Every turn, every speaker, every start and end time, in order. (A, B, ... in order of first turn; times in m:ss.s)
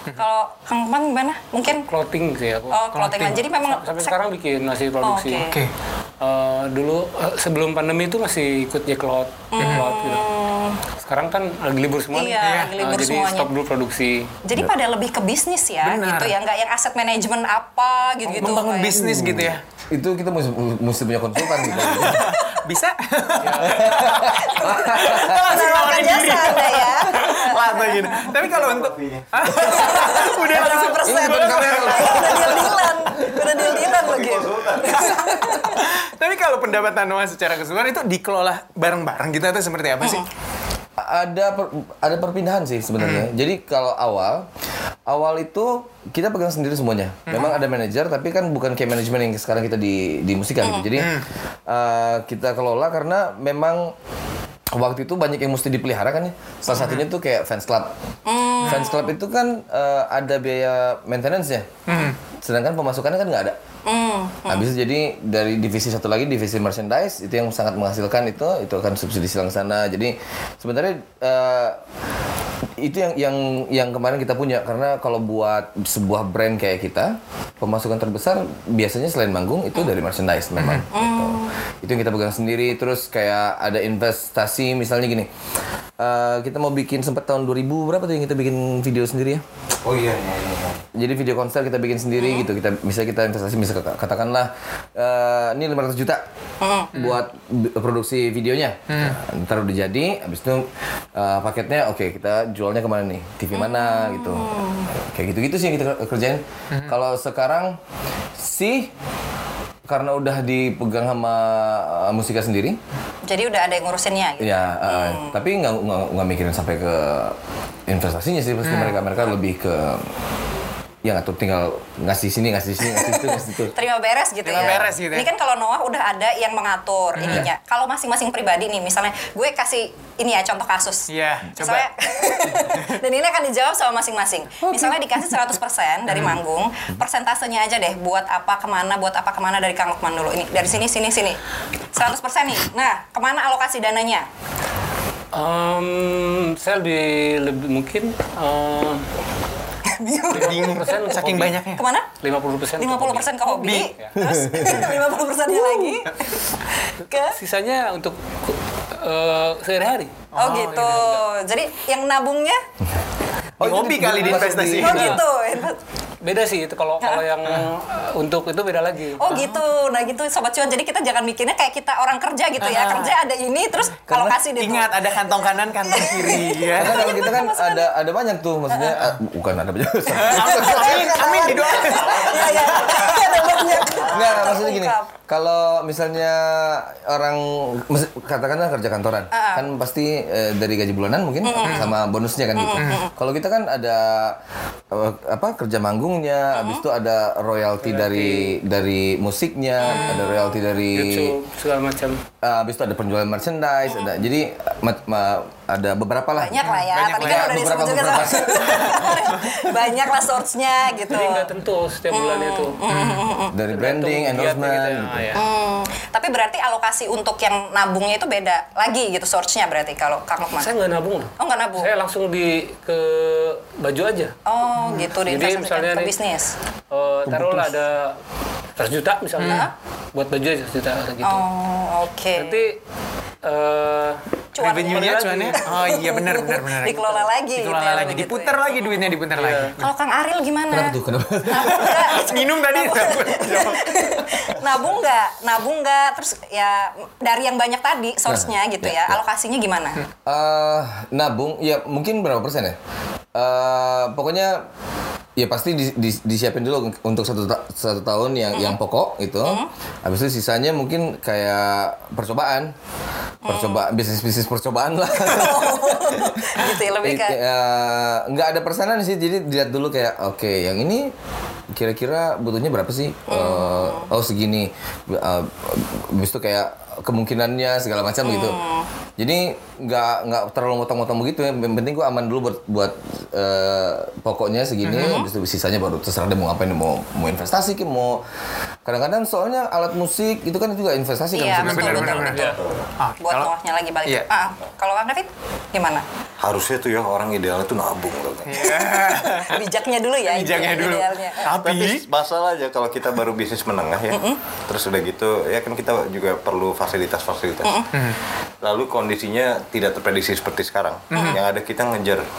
0:00.2-0:01.9 A
0:01.9-0:05.5 B
0:02.7-0:04.2 A
0:02.9-0:03.4 C
0:05.0-0:05.6 A
0:05.4-0:05.7 C
0:06.2-0:10.3 B
0:09.5-0:10.8 A
0:09.6-0:09.9 C
0:11.0-0:14.3 B
0:12.1-0:13.5 A
0:12.4-0:12.8 C
0:14.4-0:19.0 A
0:15.8-0:16.4 C
0:18.3-0:19.6 C
0:18.4-0:22.3 D
0:21.6-0:32.9 C
0:23.4-0:23.9 B
0:23.6-0:25.8 D
0:24.0-0:28.2 A
0:27.3-0:29.5 E
0:29.6-0:36.0 A
0:30.8-0:33.5 D
0:33.6-0:35.2 E
0:34.8-0:40.3 C
0:41.0-0:44.5 D
0:43.0-0:43.3 C
0:45.1-0:51.2 D
0:47.3-0:47.6 C
0:50.6-0:50.9 A
0:51.0-0:51.3 C
0:51.7-0:53.9 D
0:54.7-0:57.9 D
0:56.7-0:57.0 C
0:58.3-0:59.1 A
0:58.6-1:01.7 D
1:01.9-1:02.2 C
1:02.4-1:03.6 D
1:03.8-1:04.7 A
1:04.5-1:11.8 D
1:12.8-1:25.3 D
1:20.6-1:20.8 C
1:20.9-1:21.5 A
1:26.0-1:29.4 D
1:29.8-1:30.8 E
1:30.9-1:36.2 D
1:32.2-1:32.5 A
1:36.6-1:37.0 A
1:36.9-1:47.8 D
1:36.9-1:37.2 C
1:38.9-1:39.2 C
1:43.5-1:44.9 A
1:48.4-1:48.9 D
1:49.9-1:52.8 D
1:53.3-1:55.4 A
1:54.4-2:00.1 D
1:58.6-1:59.0 C
2:01.0-2:03.8 D
2:03.7-2:21.4 A
2:04.4-2:05.3 C
2:11.1-2:11.9 C
2:14.7-2:15.0 D
2:16.1-2:16.4 C
2:21.9-2:24.2 A
2:25.3-2:29.1 B
2:29.9-2:30.9 A
2:30.3-2:31.8 C
2:30.3-2:31.6 B
2:31.8-2:32.1 A
2:32.2-2:34.1 B
2:32.8-2:37.4 A
2:33.5-2:33.9 C
2:34.2-2:34.9 D
2:37.4-2:41.2 B
2:40.3-2:41.0 C
2:40.4-2:42.6 A
2:43.6-2:45.2 D
2:43.6-2:45.2 C
2:44.8-2:45.8 A
2:46.2-2:49.3 B
2:49.2-2:57.9 A
2:49.3-2:49.6 C
2:52.6-2:53.2 C
2:54.1-2:54.4 D
2:54.6-2:57.2 C
2:56.7-3:02.9 D
2:58.7-2:59.0 A
3:00.1-3:04.4 C
3:00.3-3:05.1 A
3:04.0-3:14.4 D
3:09.3-3:09.7 A
3:11.4-3:11.9 A
3:11.6-3:11.9 C
3:12.6-3:13.1 A
3:12.8-3:13.0 C
3:14.9-3:21.4 D
3:16.6-3:16.8 A
3:17.8-3:18.6 B
3:19.8-3:20.1 A
3:19.9-3:20.3 C
3:20.9-3:22.2 B
3:22.4-3:29.4 D
3:26.4-3:31.5 A
3:26.6-3:29.0 C
3:31.0-3:32.8 B
3:32.1-3:33.6 A
3:32.9-3:33.4 C
3:33.5-3:35.3 D
3:33.7-3:35.4 B
3:35.4-3:40.7 A
3:40.5-3:44.4 B
3:41.4-3:41.9 A
3:44.5-3:46.6 A
3:44.8-3:45.1 C
3:45.1-3:46.2 B
3:46.9-3:48.2 B
3:47.3-3:47.8 D
3:48.8-3:51.5 B
3:49.4-3:49.7 C
3:49.4-3:49.7 A
3:51.2-3:52.6 A
3:52.4-3:52.8 B
3:53.4-3:54.2 B
3:54.6-3:59.2 A
3:54.6-3:56.9 C
3:54.9-3:55.6 B
3:56.9-3:57.3 B
3:57.5-3:59.9 C
3:59.4-3:59.7 B
3:59.8-4:10.0 A
4:00.7-4:02.2 D
4:01.6-4:04.0 C
4:08.3-4:09.2 D
4:10.3-4:12.8 D
4:13.4-4:14.6 D
4:15.4-4:22.7 D
4:19.4-4:19.7 A
4:23.4-4:23.9 A
4:23.5-4:31.1 D
4:25.1-4:27.4 A
4:31.7-4:38.6 D
4:33.3-4:34.1 A
4:38.2-4:38.9 A
4:39.2-4:48.2 D
4:45.0-4:45.3 A
4:48.8-4:52.4 D
4:51.3-4:52.5 A
4:51.6-4:53.5 C
4:52.3-4:52.6 B
4:52.4-4:52.9 E
4:53.2-4:56.0 A
4:56.4-4:58.7 E
4:58.5-4:59.6 C
4:58.6-5:01.5 A
5:00.2-5:02.0 C
5:01.4-5:07.8 E
5:04.1-5:04.4 A
5:07.9-5:08.2 C
5:08.6-5:12.2 E
5:11.1-5:11.4 A